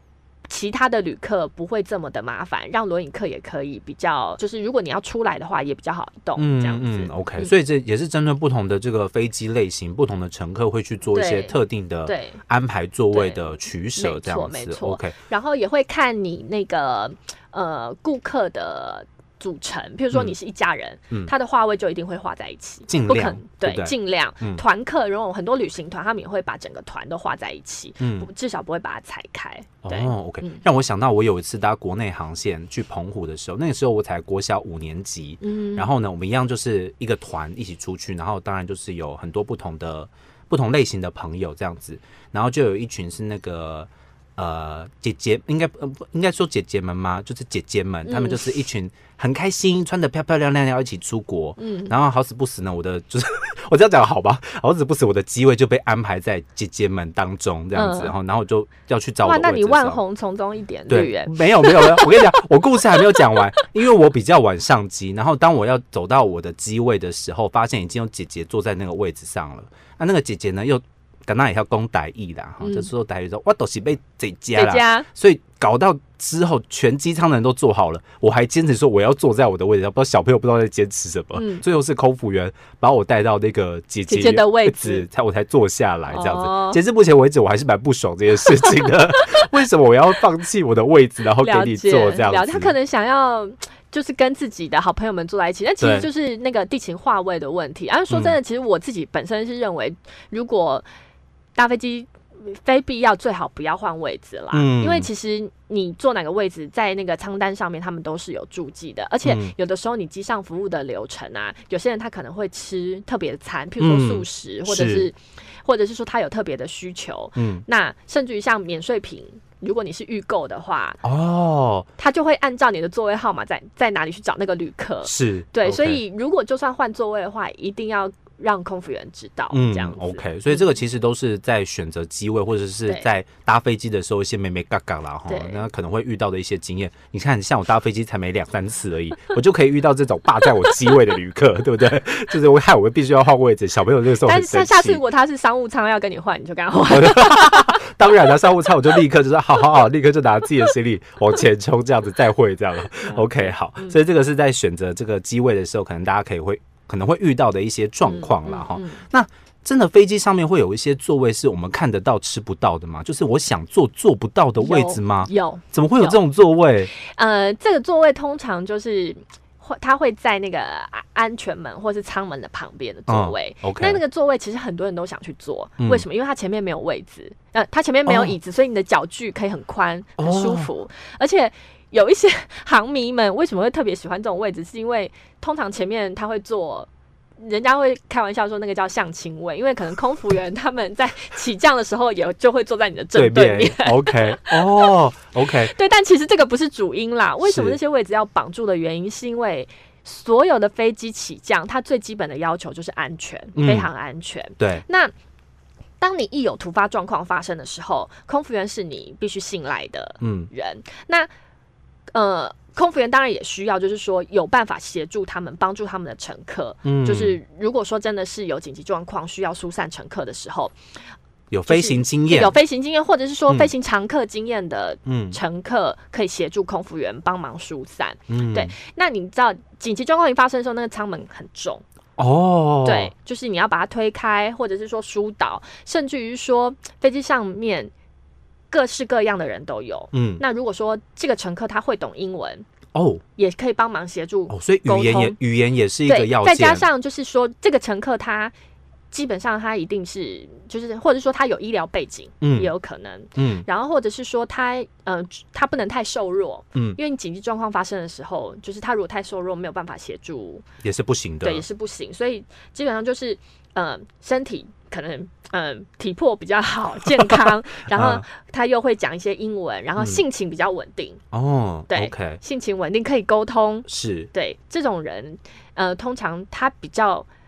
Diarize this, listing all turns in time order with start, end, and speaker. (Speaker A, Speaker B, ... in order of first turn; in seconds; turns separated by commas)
Speaker A: 0.5-7.5, Speaker B: 6.3-15.2, Speaker A: 11.1-12.4, Speaker A: 13.1-30.6, Speaker B: 22.9-24.6, Speaker B: 28.0-28.3, Speaker B: 29.8-60.0, Speaker A: 35.4-35.9, Speaker A: 48.0-48.6, Speaker A: 51.6-51.9, Speaker A: 57.7-58.1, Speaker A: 59.2-62.3, Speaker B: 60.9-92.7, Speaker A: 72.6-72.9, Speaker A: 74.5-75.1, Speaker A: 81.3-81.6, Speaker A: 84.1-85.0, Speaker A: 86.1-86.8, Speaker A: 91.4-100.8, Speaker B: 95.8-96.1, Speaker B: 98.1-98.4, Speaker A: 101.5-121.0, Speaker B: 104.5-105.1, Speaker B: 109.2-109.5, Speaker B: 113.8-115.1, Speaker B: 117.3-117.6, Speaker B: 121.0-121.9, Speaker A: 122.0-130.7, Speaker B: 125.0-126.0, Speaker B: 129.5-145.0, Speaker A: 135.3-135.6, Speaker A: 144.2-147.8, Speaker B: 146.9-166.9, Speaker A: 153.0-153.9, Speaker A: 158.0-159.0, Speaker A: 164.6-166.2, Speaker A: 166.9-194.7, Speaker B: 173.1-174.0, Speaker B: 178.1-178.3, Speaker B: 180.2-180.7, Speaker B: 193.1-195.7, Speaker A: 195.7-205.1, Speaker B: 197.4-197.8, Speaker B: 203.6-203.9, Speaker B: 204.6-204.8, Speaker A: 206.0-211.3, Speaker B: 210.2-210.5, Speaker A: 212.1-220.8, Speaker B: 216.8-217.4, Speaker B: 221.5-222.5, Speaker A: 221.7-231.8, Speaker B: 225.1-225.4, Speaker B: 228.3-228.7, Speaker B: 232.2-233.1, Speaker A: 232.8-237.9, Speaker A: 238.7-242.7, Speaker B: 240.1-240.4, Speaker B: 242.9-243.2, Speaker A: 243.4-245.4, Speaker B: 244.5-246.8, Speaker A: 246.1-248.5, Speaker A: 249.1-260.6, Speaker B: 252.4-252.7, Speaker B: 253.3-253.7, Speaker B: 256.7-257.0, Speaker B: 260.8-261.6, Speaker A: 261.4-271.2, Speaker B: 267.9-268.2, Speaker B: 271.3-272.4, Speaker A: 271.9-277.3, Speaker B: 273.9-274.3